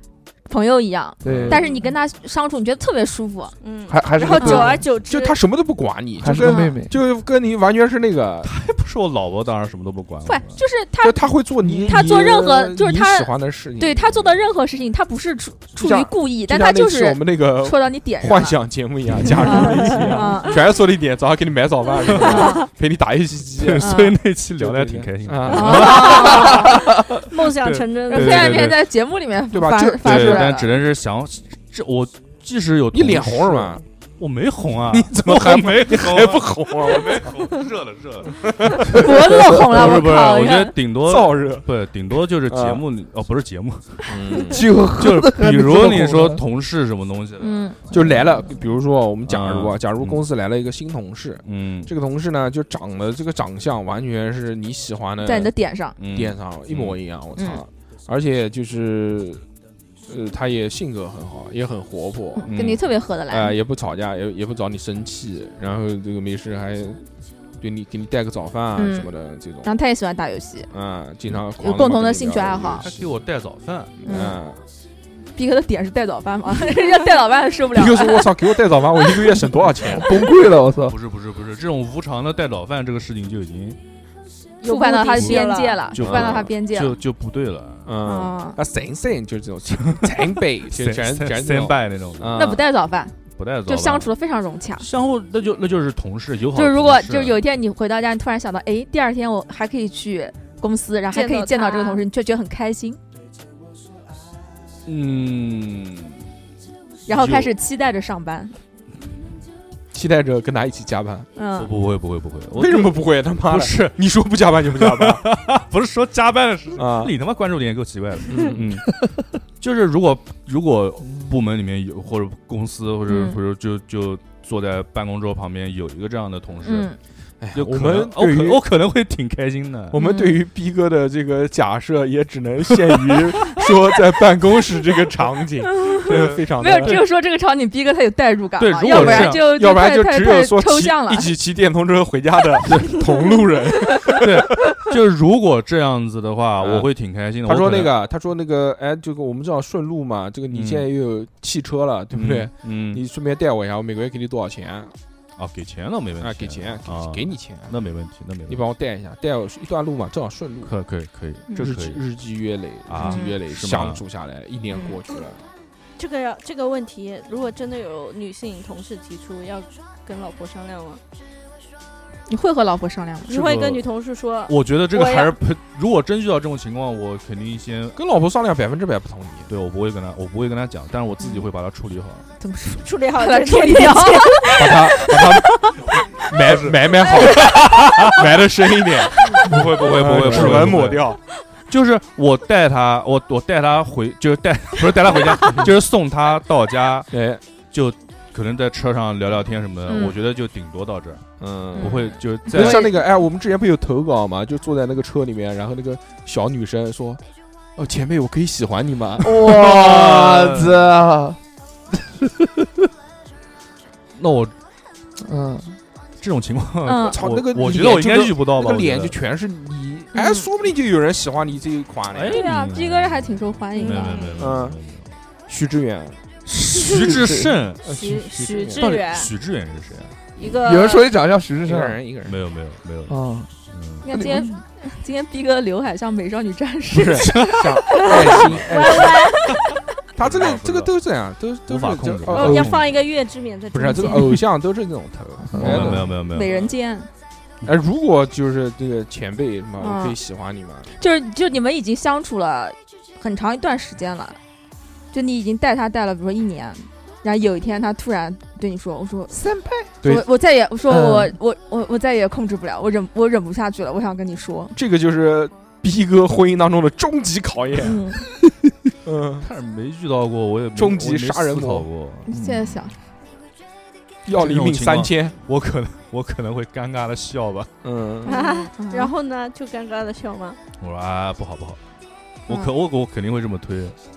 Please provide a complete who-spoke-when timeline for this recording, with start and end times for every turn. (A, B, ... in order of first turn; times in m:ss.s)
0:00.4-0:03.5 A
0:01.2-0:01.6 B
0:01.2-0:01.6 C
0:03.6-0:05.4 D
0:03.9-0:04.8 B
0:04.4-0:04.8 A
0:05.0-0:08.5 C
0:06.2-0:07.0 B
0:06.4-0:06.8 A
0:08.4-0:10.6 E
0:10.2-0:18.6 A
0:11.0-0:14.1 C
0:15.8-0:24.0 C
0:19.2-0:20.6 A
0:19.5-0:20.2 D
0:22.1-0:22.4 E
0:22.1-0:22.6 A
0:23.6-0:26.5 E
0:23.8-0:24.2 A
0:24.6-0:26.3 C
0:25.5-0:26.7 A
0:25.8-0:28.6 D
0:27.4-0:28.8 E
0:28.1-0:30.7 A
0:29.5-0:30.5 C
0:30.0-0:44.2 E
0:32.9-0:33.8 C
0:34.9-0:37.5 C
0:38.4-0:39.1 C
0:38.9-0:40.7 A
0:41.0-0:41.7 C
0:42.4-0:42.8 C
0:44.0-0:44.8 C
0:44.5-0:46.4 B
0:44.9-0:47.7 E
0:47.4-0:47.8 A
0:47.9-0:55.5 C
0:49.2-0:50.2 E
0:51.4-0:51.9 E
0:55.2-0:56.0 A
0:56.0-0:57.0 E
0:56.1-0:59.4 C
0:57.4-0:57.6 A
1:00.1-1:02.5 C
1:02.4-1:03.6 A
1:02.4-1:02.9 E
1:03.3-1:07.0 C
1:07.6-1:09.7 C
1:08.8-1:09.1 A
1:09.6-1:10.7 A
1:10.7-1:13.1 C
1:11.6-1:12.8 A
1:12.8-1:14.0 E
1:14.0-1:14.6 C
1:14.0-1:14.4 A
1:15.3-1:19.2 A
1:17.7-1:20.2 C
1:19.9-1:21.0 B
1:20.9-1:23.8 E
1:24.6-1:26.1 D
1:24.6-1:27.0 A
1:25.9-1:28.0 E
1:26.0-1:26.4 C
1:27.8-1:32.6 C
1:28.0-1:28.6 A
1:30.7-1:32.5 E
1:32.3-1:34.9 A
1:33.3-1:34.1 E
1:34.8-1:37.4 E
1:36.5-1:43.0 A
1:41.1-1:42.0 D
1:44.8-1:46.2 E
1:47.0-1:48.6 A
1:47.1-1:47.5 E
1:49.9-1:51.3 C
1:51.4-1:51.7 A
1:51.6-1:54.0 E
1:52.5-1:55.2 C
1:54.7-1:59.0 E
1:56.8-1:57.1 C
1:58.3-1:58.7 C
1:59.6-2:06.9 E
2:03.1-2:03.4 A
2:06.6-2:07.0 A
2:07.4-2:08.6 C
2:07.5-2:10.0 E
2:09.9-2:17.0 C
2:10.0-2:10.4 A
2:12.9-2:13.2 E
2:16.0-2:17.0 E
2:16.6-2:21.3 A
2:18.6-2:19.5 E
2:18.9-2:24.9 C
2:22.6-2:23.0 E
2:24.1-2:27.9 E
2:26.6-2:26.9 C
2:27.4-2:34.9 C
2:30.5-2:30.9 E
2:32.1-2:33.0 E
2:35.4-2:38.6 E
2:36.2-2:37.8 C
2:38.5-2:40.7 C
2:40.6-2:42.0 E
2:41.5-2:45.4 C
2:42.8-2:44.0 E
2:43.0-2:43.4 A
2:46.0-2:51.0 D
2:52.3-2:53.5 A
2:53.3-2:55.4 D
2:53.3-2:53.8 E
2:54.5-2:58.0 E
2:57.9-2:59.5 C
2:59.5-3:02.3 E
3:02.4-3:05.4 A
3:02.8-3:04.8 D
3:04.6-3:05.6 C
3:05.9-3:08.3 E
3:06.3-3:07.6 C
3:08.1-3:11.2 C
3:09.3-3:11.1 E
3:11.7-3:17.1 E
3:17.1-3:17.4 C
3:17.7-3:21.2 E
3:19.9-3:20.2 A
3:21.4-3:27.2 C
3:21.8-3:22.9 E
3:21.8-3:23.0 A
3:27.8-3:29.5 C
3:29.2-3:31.4 B
3:29.5-3:30.8 E
3:32.2-3:32.6 B
3:34.2-3:34.5 E
3:35.2-3:35.8 B
3:36.2-3:39.2 E
3:36.8-3:37.2 A
3:37.0-3:42.4 C
3:40.1-3:40.5 A
3:42.1-3:45.1 E
3:42.3-3:44.4 A
3:43.8-3:44.4 D
3:44.4-3:44.8 C
3:45.5-3:46.2 C
3:46.4-3:47.8 E
3:46.9-3:48.8 C
3:47.2-3:47.5 B
3:47.9-3:49.3 D
3:48.8-3:50.2 E
3:50.4-3:51.1 D
3:50.6-3:52.0 B
3:51.6-3:52.4 C
3:52.2-3:53.2 E
3:53.1-3:53.5 B
3:53.7-3:54.1 E
3:54.0-3:58.3 A
3:54.1-3:54.4 B
3:56.9-3:59.3 C
3:57.1-3:57.7 E
3:58.0-3:59.6 D
3:58.3-3:58.6 E
4:00.2-4:02.9 C
4:00.2-4:00.9 E
4:01.7-4:02.9 E
4:02.3-4:04.4 D
4:03.7-4:06.6 C
4:03.8-4:04.4 A
4:05.5-4:06.1 B
4:05.5-4:06.6 E
4:06.2-4:07.1 A
4:07.6-4:10.9 C
4:09.8-4:10.2 A
4:11.0-4:14.4 A
4:15.1-4:19.4 A
4:19.3-4:19.9 B
4:20.0-4:24.7 A
4:20.9-4:21.3 B
4:24.7-4:28.0 C
4:27.8-4:28.2 A
4:29.0-4:29.4 C
4:29.4-4:32.3 E
4:30.7-4:31.9 C
4:32.3-4:32.9 A
4:32.3-4:32.9 B
4:34.2-4:35.4 C
4:34.3-4:37.7 E
4:37.8-4:38.3 C
4:38.2-4:39.1 A
4:38.2-4:40.6 D
4:40.8-4:41.8 E
4:42.5-4:44.0 E